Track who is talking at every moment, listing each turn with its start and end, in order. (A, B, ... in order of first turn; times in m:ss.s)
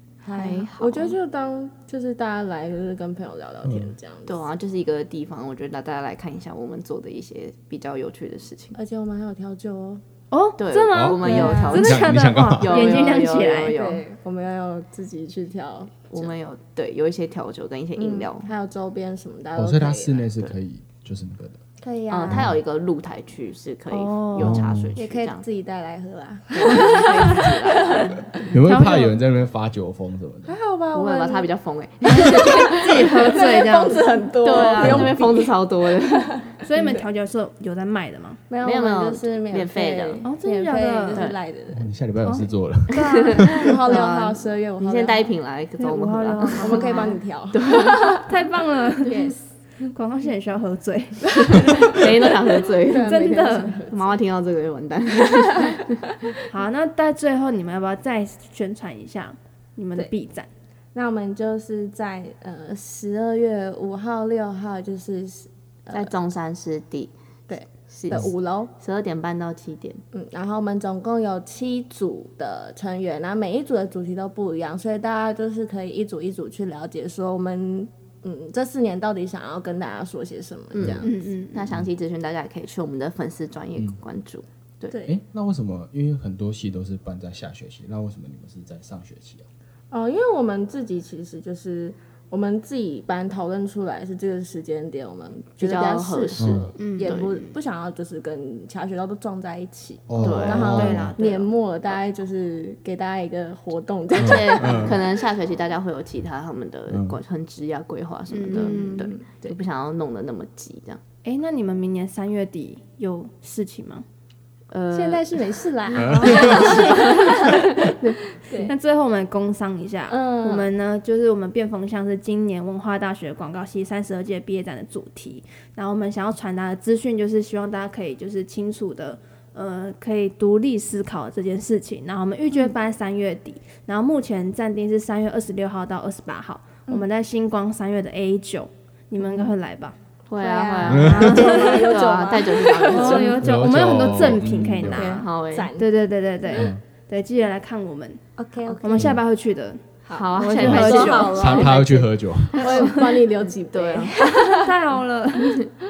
0:00.2-0:04.4 A
0:00.3-0:01.1 B
0:03.6-0:03.9 C
0:04.2-0:08.8 B
0:08.8-0:10.0 A
0:10.3-0:13.7 D
0:10.6-0:14.0 B
0:10.9-0:12.9 C
0:11.2-0:11.8 A
0:12.8-0:16.3 A
0:16.1-0:18.5 B
0:18.0-0:20.3 A
0:19.6-0:21.6 C
0:21.8-0:22.5 A
0:22.1-0:25.4 B
0:22.3-0:22.6 C
0:23.9-0:24.7 D
0:24.4-0:25.0 C
0:25.0-0:28.5 A
0:26.5-0:28.4 B
0:28.5-0:30.6 C
0:28.6-0:29.2 D
0:30.4-0:31.5 A
0:30.9-0:33.5 B
0:32.1-0:34.7 D
0:32.1-0:37.0 A
0:34.4-0:36.4 B
0:34.8-0:35.2 C
0:36.6-0:38.4 D
0:38.5-0:41.9 A
0:38.6-0:40.2 B
0:40.2-0:41.2 D
0:41.1-0:41.4 B
0:41.7-0:43.5 C
0:42.2-0:43.5 D
0:42.9-0:48.2 B
0:43.3-0:45.4 A
0:45.8-0:47.2 D
0:46.6-0:48.4 A
0:48.1-0:49.4 D
0:49.0-0:49.4 A
0:49.9-0:52.3 D
0:51.4-0:52.2 A
0:51.7-0:53.3 B
0:52.8-0:54.2 A
0:52.9-0:53.8 D
0:53.9-0:56.2 B
0:56.5-1:00.5 D
1:00.9-1:06.1 A
1:05.9-1:07.1 B
1:07.5-1:08.7 A
1:07.9-1:10.0 B
1:10.1-1:21.2 A
1:20.7-1:24.9 B
1:21.0-1:21.7 D
1:25.0-1:29.4 C
1:29.9-1:45.0 A
1:35.6-1:37.3 B
1:36.4-1:36.7 C
1:36.8-1:37.2 D
1:40.1-1:41.1 C
1:40.2-1:40.8 B
1:40.4-1:41.5 D
1:44.1-1:51.0 B
1:44.2-1:45.0 C
1:46.9-1:47.2 C
1:48.3-1:49.1 D
1:48.5-1:49.5 A
1:51.2-1:54.0 D
1:54.7-1:55.4 B
1:54.9-1:58.7 A
1:55.9-1:56.7 C
1:56.0-1:57.8 D
1:56.1-1:58.0 B
1:58.6-2:20.0 D
2:00.1-2:00.7 A
2:19.2-2:19.5 A
2:20.3-2:23.4 B
2:20.3-2:23.4 A
2:20.9-2:21.4 C
2:21.1-2:22.0 D
2:22.9-2:28.2 D
2:23.4-2:25.1 C
2:24.8-2:25.9 A
2:25.0-2:25.7 B
2:26.5-2:26.8 C
2:28.4-2:29.1 A
2:28.8-2:29.8 D
2:30.1-2:34.7 A
2:30.1-2:31.8 B
2:30.3-2:31.4 D
2:30.6-2:32.7 C
2:32.5-2:34.6 B
2:32.7-2:33.0 D
2:34.4-2:35.6 D